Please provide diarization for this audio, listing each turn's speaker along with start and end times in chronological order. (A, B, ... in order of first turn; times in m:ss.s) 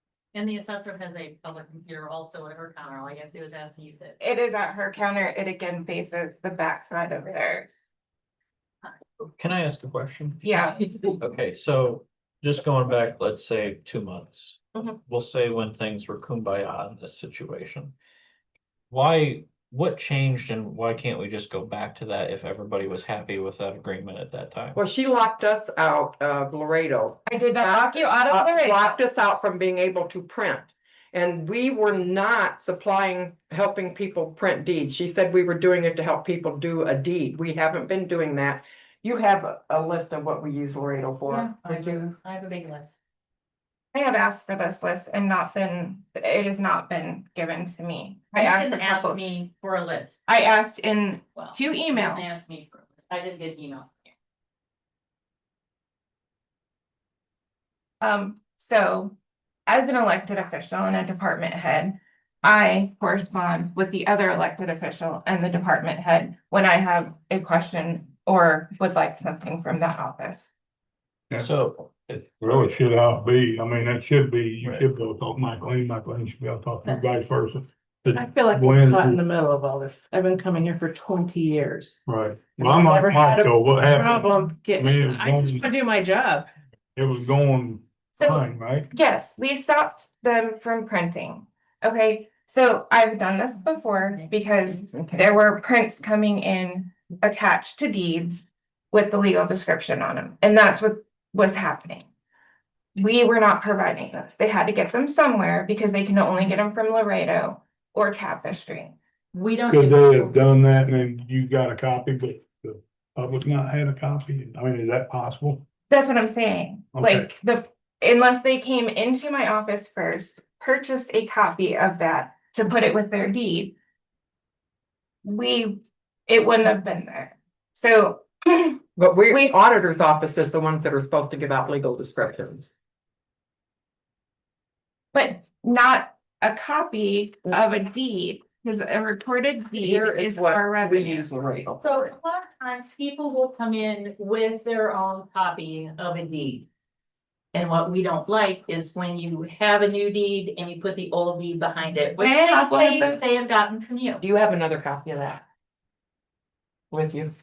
0:00.3-0:04.2 A
0:04.2-0:07.8 B
0:09.4-0:18.0 C
0:10.4-0:10.8 B
0:18.9-0:24.8 C
0:24.8-0:42.0 D
0:27.2-0:28.9 B
0:41.3-0:43.0 A
0:43.9-0:49.2 B
0:48.4-0:50.2 A
0:50.3-0:52.4 B
0:51.4-0:54.1 A
0:58.0-0:59.2 B
0:59.7-1:10.5 B
1:11.4-1:12.6 C
1:12.4-1:19.2 E
1:18.1-1:22.0 F
1:22.1-1:25.7 E
1:22.6-1:26.5 F
1:27.0-1:28.9 E
1:28.2-1:42.1 B
1:34.9-1:35.2 D
1:43.0-1:49.0 B
1:49.3-1:50.4 A
1:49.7-1:55.6 E
1:55.9-2:03.7 B
1:56.9-1:57.3 E
2:05.2-2:09.6 B
2:09.0-2:12.7 D
2:15.1-2:21.3 B
2:19.8-2:21.8 D
2:21.8-2:26.7 A
2:27.5-2:34.2 A
2:32.2-2:33.2 B
2:34.2-2:35.4 D
2:36.9-2:37.3 D